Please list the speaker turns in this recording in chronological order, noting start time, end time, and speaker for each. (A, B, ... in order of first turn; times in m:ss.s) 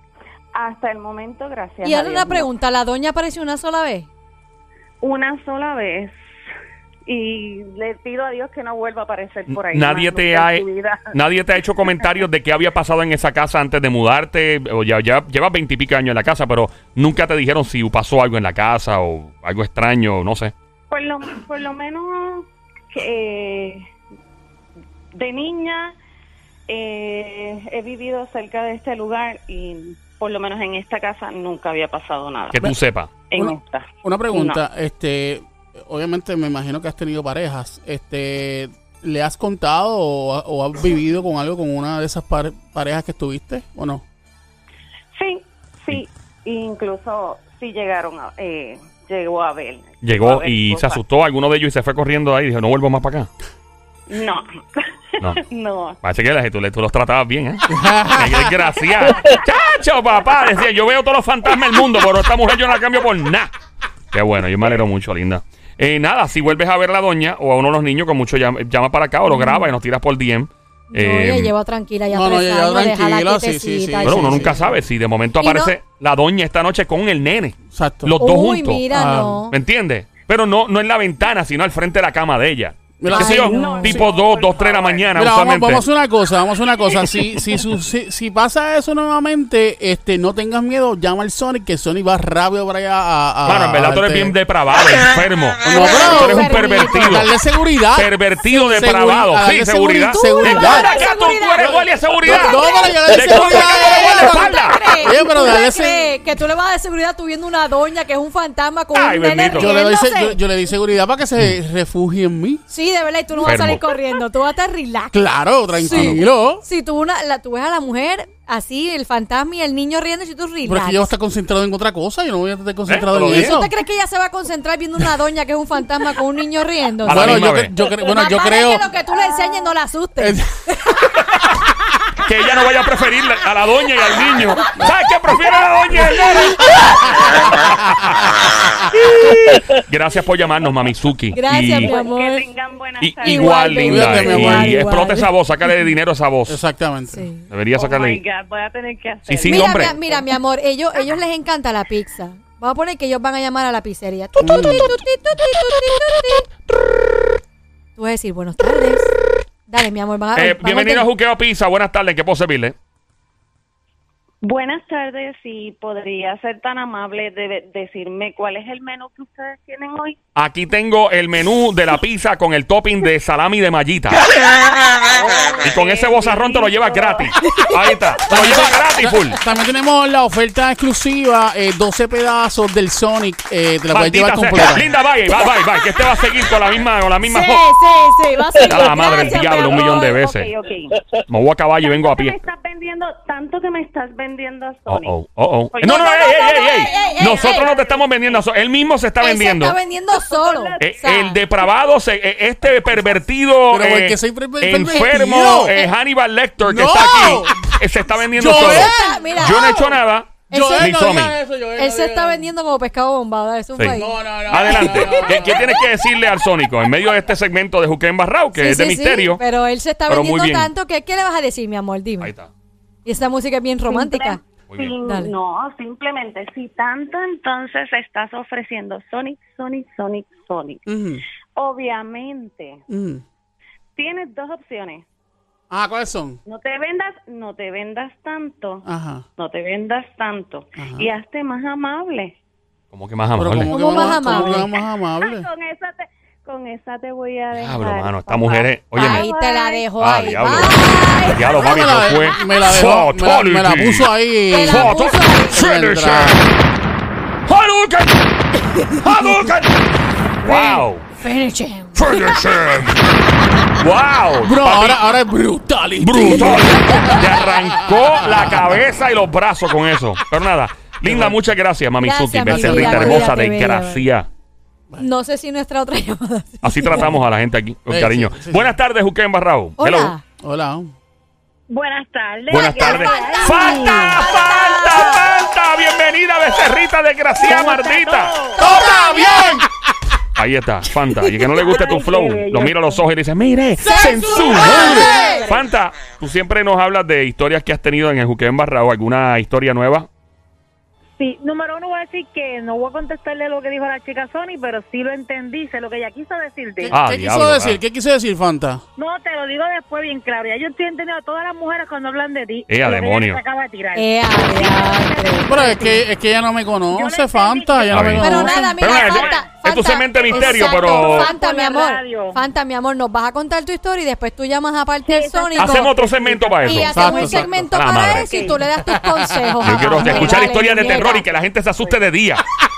0:00.5-0:02.5 A
0:01.8-0:04.1 B
0:05.0-0:06.1 A
0:07.0-0:11.1 A
0:09.5-0:20.5 C
0:20.9-0:23.8 A
0:25.1-0:25.9 A
0:26.7-0:32.7 A
0:32.5-0:33.1 C
0:33.3-0:34.6 A
0:33.3-0:44.0 D
0:45.1-0:51.0 A
0:50.0-0:53.3 C
0:54.1-0:56.0 A
0:56.0-1:03.5 C
0:57.7-0:58.7 D
1:04.1-1:11.5 C
1:09.3-1:09.7 B
1:10.9-1:14.6 B
1:12.1-1:14.8 D
1:14.0-1:18.9 C
1:15.4-1:15.7 B
1:17.7-1:18.2 D
1:18.2-1:19.5 B
1:18.9-1:19.4 D
1:19.5-1:25.8 C
1:23.0-1:24.0 D
1:23.1-1:23.8 B
1:23.2-1:25.1 A
1:25.1-1:34.3 D
1:33.4-1:37.3 C
1:35.6-1:41.0 D
1:35.7-1:37.2 B
1:38.0-1:44.8 C
1:40.1-1:50.4 B
1:42.2-1:46.1 D
1:48.9-1:49.7 C
1:49.5-1:52.6 D
1:52.7-2:01.1 B
1:53.4-1:53.8 C
1:55.1-1:56.6 D
1:55.8-1:56.2 C
2:00.6-2:03.7 D
2:02.9-2:03.6 C
2:03.2-2:11.0 B
2:07.0-2:07.7 C
2:07.0-2:08.9 D
2:10.2-2:11.0 D
2:12.2-2:17.6 C
2:16.1-2:16.8 B
2:16.4-2:19.6 D
2:19.2-2:21.9 C
2:21.3-2:22.4 B
2:21.8-2:23.8 A
2:23.0-2:26.6 C
2:23.2-2:25.9 B
2:23.6-2:24.8 D
2:26.5-2:27.3 D
2:27.1-2:27.4 B
2:27.5-2:28.2 C
2:27.7-2:30.3 A
2:29.3-2:29.9 C
2:29.4-2:36.5 B
2:34.4-2:34.9 D
2:38.0-2:39.1 B
2:39.7-2:41.1 B
2:40.3-2:42.7 C
2:44.4-2:50.2 A
2:50.4-2:54.2 C
2:55.1-2:57.3 A
2:55.6-2:59.4 C
2:57.4-2:57.7 B
2:58.3-3:04.8 D
3:03.9-3:07.7 C
3:07.2-3:10.0 B
3:08.6-3:10.5 C
3:08.7-3:11.0 A
3:11.3-3:12.4 C
3:11.8-3:15.2 A
3:14.9-3:19.8 C
3:15.7-3:18.4 A
3:16.4-3:17.8 B
3:19.2-3:21.4 B
3:20.1-3:20.9 A
3:20.8-3:31.4 C
3:23.7-3:25.8 D
3:26.6-3:27.6 D
3:28.3-3:29.8 D
3:28.4-3:29.9 B
3:30.5-3:31.1 B
3:30.5-3:32.5 D
3:31.8-3:35.6 B
3:33.8-3:39.4 C
3:33.9-3:35.8 D
3:38.5-3:42.3 B
3:40.1-3:40.7 C
3:42.2-3:42.5 C
3:43.0-3:44.4 B
3:43.8-3:50.8 A
3:44.7-3:45.0 C
3:45.0-3:45.3 B
3:50.9-3:51.2 D
3:51.6-3:52.8 A
3:52.9-3:53.2 D
3:54.0-3:55.0 A
3:55.7-3:56.4 D
3:56.4-3:58.8 A
3:58.8-3:59.2 D
3:59.4-4:02.4 A
4:00.8-4:01.1 D
4:02.9-4:03.7 C
4:03.4-4:05.5 D
4:03.7-4:04.7 B
4:04.0-4:09.9 A
4:07.5-4:09.3 C
4:08.9-4:11.6 B
4:10.0-4:14.1 C
4:11.5-4:16.4 D
4:14.5-4:15.6 B
4:14.6-4:16.4 C
4:17.5-4:18.2 C
4:18.8-4:19.5 B
4:19.0-4:21.1 C
4:20.4-4:22.2 B
4:22.0-4:23.0 C
4:23.8-4:25.0 C
4:24.4-4:28.8 D
4:26.0-4:34.3 C
4:26.3-4:27.3 B
4:31.0-4:31.4 D
4:32.0-4:34.0 B
4:32.4-4:33.4 D
4:35.0-4:37.2 B
4:36.6-4:40.1 C
4:37.9-4:38.8 D
4:39.8-4:40.2 B
4:40.4-4:40.9 D
4:41.7-4:44.9 E
4:42.5-4:49.6 C
4:42.9-4:45.2 B
4:47.4-4:48.6 E
4:48.6-4:49.6 D
4:48.6-4:49.5 B
4:50.4-5:00.1 C
4:51.6-4:53.0 E
4:53.8-4:55.4 D
4:53.9-4:55.4 B
4:54.3-4:55.7 E
5:01.2-5:06.9 E
5:06.8-5:08.8 D
5:06.9-5:07.8 C
5:09.0-5:15.8 E
5:12.7-5:13.4 C
5:13.9-5:16.0 B
5:15.4-5:18.7 D
5:16.9-5:19.5 E
5:17.9-5:21.3 C
5:18.2-5:26.0 B
5:20.1-5:22.4 E
5:25.0-5:27.5 E
5:25.6-5:28.4 C
5:26.6-5:31.2 B
5:26.9-5:27.6 D
5:28.0-5:28.7 E
5:28.8-5:30.4 D
5:29.6-5:32.4 C
5:30.1-5:32.0 E